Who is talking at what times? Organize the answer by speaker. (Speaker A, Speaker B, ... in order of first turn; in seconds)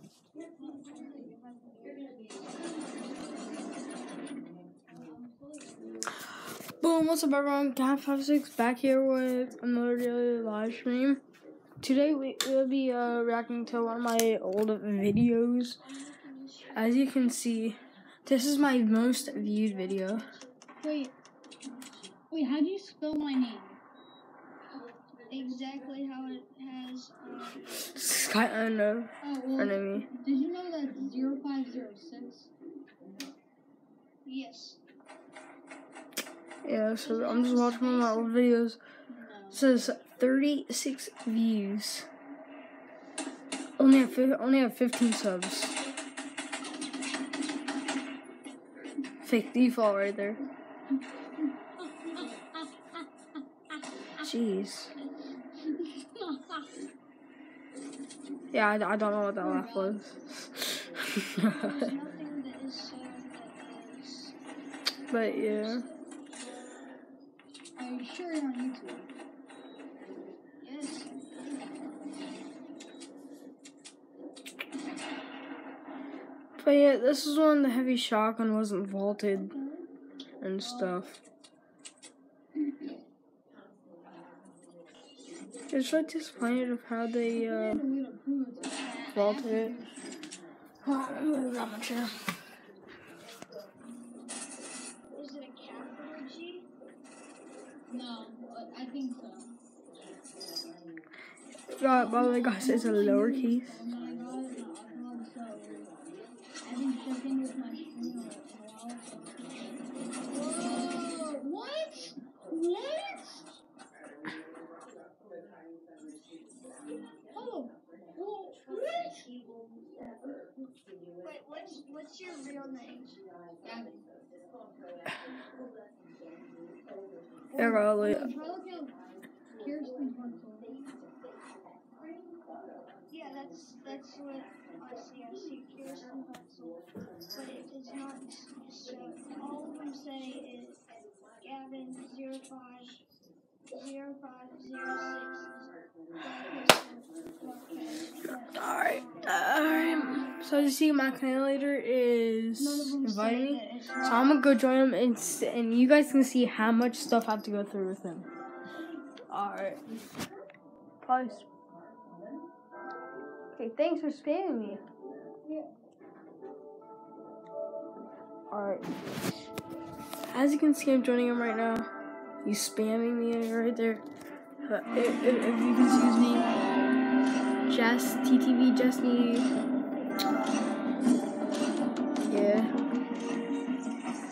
Speaker A: 0.4-3.0, 15.8-17.9, 18.9-20.6, 25.3-28.1, 34.2-34.8, 37.0-38.4, 61.4-64.4, 65.1-66.7, 70.6-71.1, 95.1-96.7, 121.2-123.2, 133.1-140.8, 141.4-143.0, 143.7-149.9, 152.6-154.4
Speaker B: 0.5-3.8, 4.8-6.3, 20.8-21.1, 22.1-23.8, 24.8-25.9, 29.2-32.5, 39.1-39.8, 51.8-52.6, 55.6-56.7, 59.4-60.2, 67.7-69.1, 79.3-79.9, 80.6-81.1, 82.6-82.9, 87.3-90.3, 97.9-99.5, 101.9-106.0, 106.6-113.6, 117.3-119.3, 123.6-124.1, 127.5-129.0, 129.5-130.7, 165.4-165.7
Speaker C: 6.8-11.2, 11.8-15.8, 16.7-20.3, 27.8-30.1, 36.6-38.8, 39.5-42.1, 43.8-45.8, 49.2-50.4, 54.2-54.9, 58.5-61.9, 65.1-65.8, 76.6-79.5, 80.4-81.2, 85.7-87.8, 89.1-89.7, 90.8-92.2, 101.8-103.8, 127.5-128.3, 148.5-158.3, 159.3-159.8, 161.0-161.4, 163.6-164.8, 168.5-168.9, 170.3-171.9, 172.4-174.0, 174.6-176.5, 177.7-179.5, 182.3-182.7